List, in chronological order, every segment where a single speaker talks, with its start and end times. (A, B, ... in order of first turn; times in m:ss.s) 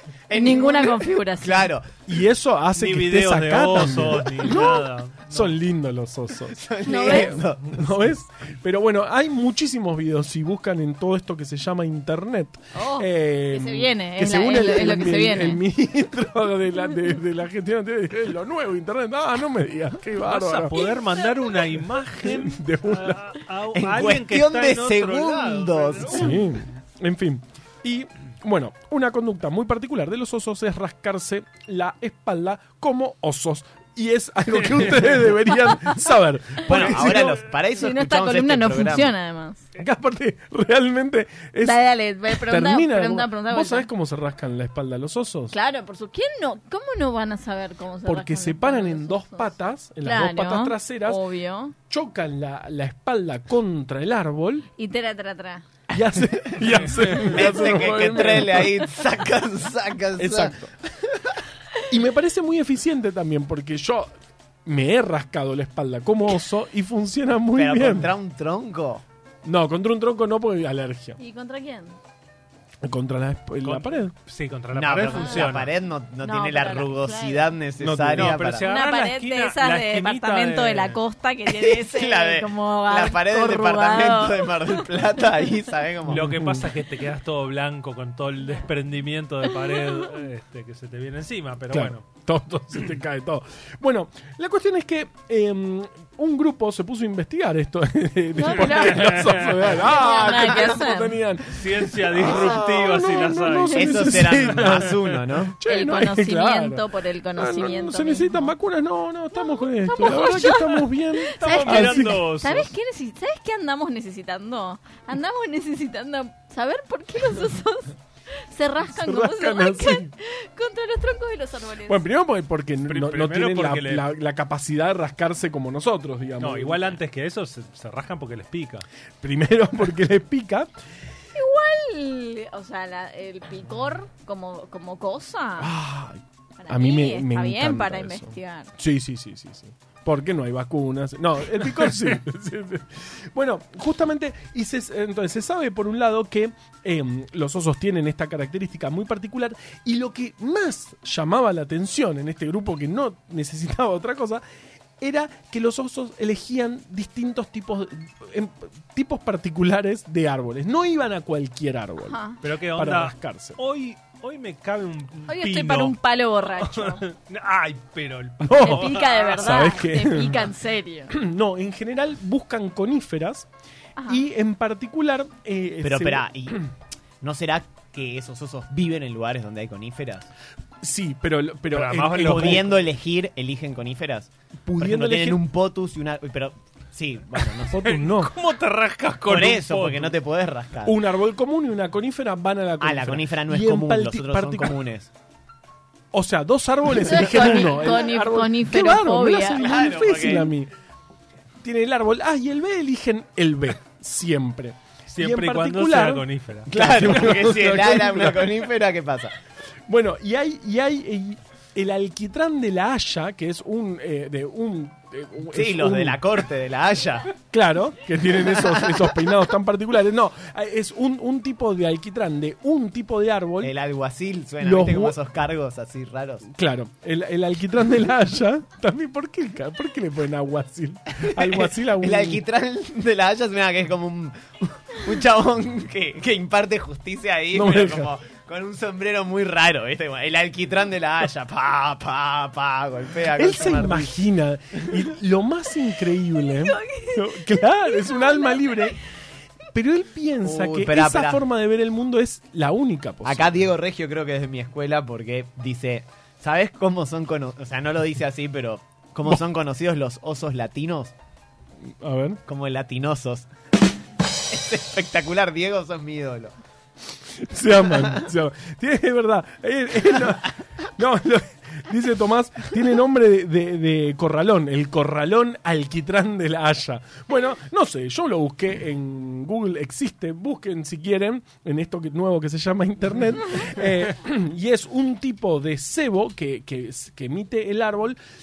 0:00.3-0:02.0 A
0:00.3-0:01.7 B
0:02.0-0:06.6 C
0:02.7-0:05.6 D
0:06.5-0:08.1 A
0:06.8-0:07.4 B
0:07.2-0:20.7 C
0:12.7-0:15.6 B
0:20.2-0:26.4 D
0:22.2-0:23.2 C
0:23.7-0:26.2 A
0:26.0-0:37.4 C
0:34.8-0:35.1 D
0:36.7-0:39.6 B
0:36.7-0:39.1 A
0:39.8-0:45.6 C
0:41.6-0:43.9 B
0:45.5-0:51.7 B
0:48.0-0:51.2 C
0:51.8-0:54.7 C
0:54.8-0:55.6 B
0:55.9-0:58.6 C
0:57.2-0:58.8 B
0:57.2-1:00.6 A
1:00.2-1:00.7 C
1:01.9-1:04.1 C
1:04.7-1:08.1 C
1:07.6-1:09.0 A
1:09.4-1:11.2 C
1:11.2-1:12.0 B
1:12.8-1:14.1 C
1:13.6-1:15.7 D
1:14.7-1:18.7 A
1:15.1-1:15.6 B
1:16.2-1:17.5 B
1:17.8-1:18.4 C
1:18.1-1:21.0 D
1:18.6-1:24.8 B
1:21.5-1:26.3 A
1:26.0-1:32.0 D
1:26.1-1:26.7 C
1:31.7-1:52.2 C
1:38.4-1:39.1 B
1:38.9-1:39.7 D
1:39.7-1:41.2 B
1:40.3-1:40.8 A
1:41.5-1:44.9 D
1:43.7-1:45.6 A
1:45.7-1:48.5 B
1:49.3-2:02.0 B
1:51.4-1:52.7 D
1:58.8-2:00.1 C
2:01.8-2:07.0 C
2:02.8-2:04.1 D
2:06.4-2:08.8 D
2:09.2-2:10.7 C
2:11.3-2:15.7 B
2:15.6-2:34.4 C
2:16.6-2:18.7 B
2:35.0-2:42.2 C
2:42.0-2:42.4 B
2:42.4-2:46.0 D
2:42.7-2:43.6 C
2:45.3-2:47.0 B
2:46.6-2:49.4 D
2:48.4-2:50.5 C
2:48.6-2:51.1 B
2:51.1-2:53.5 C
2:54.0-2:54.2 B
2:54.1-2:56.7 C
2:55.8-2:56.6 A
2:57.2-3:00.3 A
3:00.8-3:02.7 C
3:01.7-3:02.7 D
3:02.2-3:07.8 A
3:04.6-3:05.4 C
3:07.6-3:10.1 D
3:07.7-3:08.3 C
3:09.2-3:11.0 A
3:10.8-3:14.8 C
3:12.8-3:15.1 A
3:16.1-3:20.7 C
3:16.9-3:19.7 B
3:19.6-3:20.5 A
3:21.6-3:28.6 C
3:25.1-3:27.3 D
3:26.7-3:29.3 A
3:29.9-3:36.2 C
3:35.5-3:37.3 A
3:37.4-3:43.7 C
3:43.6-3:46.4 A
3:44.6-3:45.2 C
3:46.4-3:52.4 C
3:51.2-4:04.2 A
3:57.5-3:58.1 C
4:03.4-4:09.0 C
4:06.6-4:08.9 B
4:09.7-4:13.6 C
4:10.4-4:11.4 A
4:13.2-4:21.1 A
4:22.0-4:22.4 C
4:22.4-4:23.5 A
4:24.5-4:26.5 A
4:27.4-4:48.2 C
4:27.8-4:28.3 A